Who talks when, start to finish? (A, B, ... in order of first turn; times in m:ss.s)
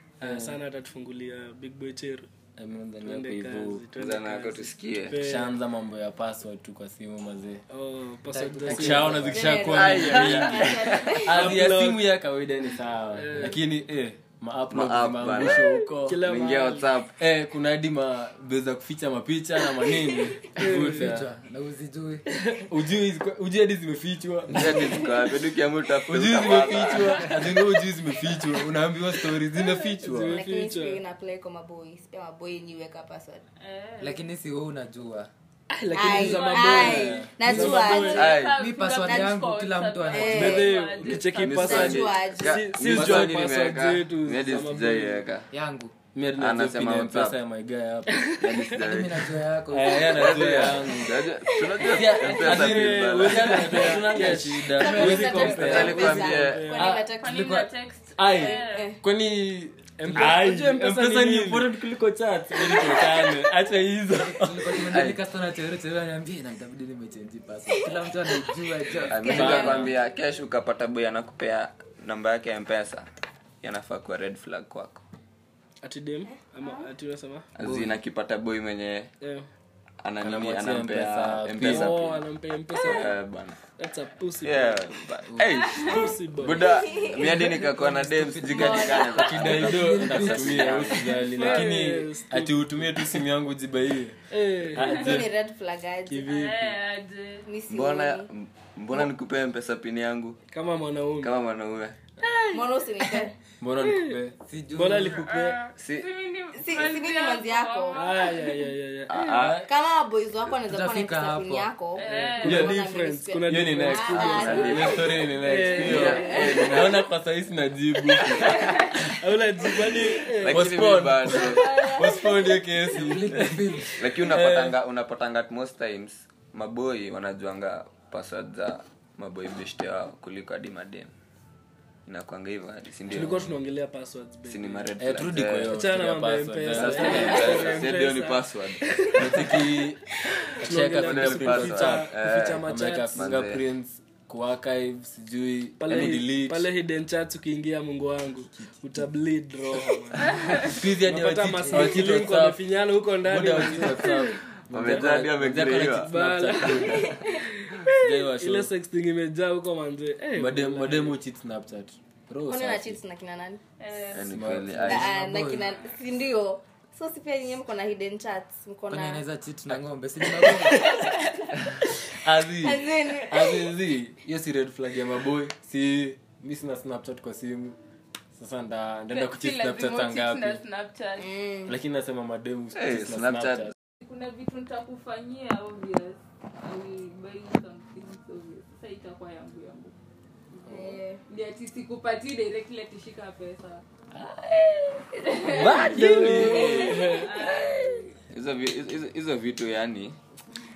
0:00.2-0:02.3 A
0:00.2-0:00.6 B
0:02.6-0:03.8 B
0:03.0-0:05.5 A
0:04.0-0:05.2 C
0:05.2-0:07.6 B
0:07.7-0:09.4 A
0:08.3-0:09.4 D
0:08.7-0:16.2 B
0:09.1-0:11.6 E
0:09.6-0:11.1 C
0:11.1-0:12.1 A
0:13.1-0:13.6 A
0:14.7-0:17.1 C
0:15.5-0:16.9 A
0:17.2-0:21.3 B
0:20.6-0:21.1 A
0:20.6-0:22.2 D
0:22.3-0:22.7 A
0:22.7-0:25.0 B
0:24.5-0:27.5 C
0:26.1-0:30.4 B
0:30.0-0:31.0 A
0:30.3-0:33.4 E
0:33.6-0:34.2 F
0:34.0-0:35.3 D
0:35.7-0:38.3 A
0:35.9-0:38.4 E
0:36.0-0:41.6 F
0:36.8-0:37.6 B
0:38.2-0:38.6 C
0:38.5-0:40.8 D
0:39.1-0:39.4 E
0:40.1-0:40.8 E
0:40.3-0:45.2 A
0:41.4-0:45.5 C
0:41.5-0:42.6 E
0:42.8-0:43.3 B
0:45.5-0:45.9 D
0:46.2-0:48.2 B
0:46.4-0:47.4 C
0:48.2-0:48.7 A
0:48.4-0:49.3 C
0:48.7-0:50.7 D
0:49.7-0:51.1 B
0:50.1-0:54.2 C
0:51.9-0:56.0 B
0:52.2-0:57.0 A
0:54.7-0:56.2 D
0:54.8-0:57.4 E
0:55.6-0:56.7 C
0:57.2-0:58.9 F
0:57.2-0:57.7 D
0:58.2-1:04.9 B
0:58.3-0:59.0 E
1:00.0-1:01.7 A
1:04.1-1:09.8 D
1:04.9-1:05.2 C
1:09.1-1:13.1 C
1:09.1-1:10.0 E
1:09.2-1:09.9 B
1:13.6-1:15.0 C
1:15.8-1:17.5 A
1:17.6-1:19.1 C
1:17.6-1:18.0 D
1:19.2-1:19.5 A
1:20.0-1:22.2 C
1:20.2-1:22.0 B
1:21.6-1:23.2 A
1:22.8-1:23.6 C
1:23.8-1:24.8 A
1:24.4-1:31.5 C
1:25.2-1:25.5 D
1:25.8-1:26.7 A
1:26.8-1:27.2 E
1:27.0-1:31.1 D
1:28.5-1:29.4 E
1:29.1-1:34.2 B
1:31.3-1:33.2 A
1:34.3-1:35.0 A
1:34.7-1:35.3 B
1:34.8-1:36.2 E
1:36.1-1:36.8 A
1:36.2-1:37.5 F
1:37.5-1:38.3 E
1:37.7-1:40.4 C
1:40.5-1:41.3 A
1:41.2-1:42.0 C
1:42.5-1:43.3 E
1:43.6-1:44.3 B
1:44.5-1:45.2 D
1:44.7-1:45.6 A
1:45.0-1:48.3 F
1:45.8-1:46.1 C
1:46.5-1:48.0 E
1:47.9-1:49.4 A
1:49.1-1:49.6 C
1:49.4-1:49.7 B
1:49.6-1:55.2 E
1:50.7-1:51.7 D
1:52.0-1:52.8 F
1:52.0-1:56.7 A
1:52.4-1:52.8 B
1:53.5-1:58.6 B
1:54.2-1:55.0 C
1:55.7-1:56.8 E
1:55.9-1:57.0 C
1:58.6-2:00.8 A
2:00.2-2:01.7 C
2:00.5-2:04.7 B
2:01.4-2:02.4 E
2:01.7-2:02.0 F
2:02.9-2:04.0 D
2:04.0-2:11.1 C
2:12.0-2:13.6 C
2:13.1-2:14.9 A
2:14.5-2:15.7 C
2:15.0-2:17.7 B
2:15.7-2:18.5 A
2:16.7-2:19.1 C
2:19.1-2:20.0 B
2:19.2-2:19.5 A
2:20.6-2:26.7 B
2:20.6-2:23.1 A
2:21.0-2:23.6 C
2:25.8-2:34.2 A
2:30.6-2:32.6 B
2:33.2-2:37.2 B
2:34.7-2:36.1 C
2:36.0-2:41.2 A
2:36.8-2:37.4 E
2:37.9-2:38.7 B
2:40.4-2:43.0 B
2:42.5-2:43.6 E
2:43.8-2:44.3 F
2:44.1-2:45.1 C
2:44.2-2:45.1 B
2:44.8-2:49.2 E
2:45.0-2:45.7 D
2:48.9-2:51.0 D
2:52.2-2:57.8 B
2:52.5-2:53.8 E
2:58.3-3:00.6 B
2:59.1-3:01.5 F
3:01.2-3:01.7 E
3:01.7-3:03.7 B
3:02.7-3:03.7 C
3:04.0-3:10.0 F
3:10.7-3:11.2 E
3:10.7-3:13.8 F
3:14.4-3:18.1 F
3:15.4-3:17.0 B
3:15.8-3:17.2 C
3:16.0-3:17.3 A
3:18.3-3:20.2 C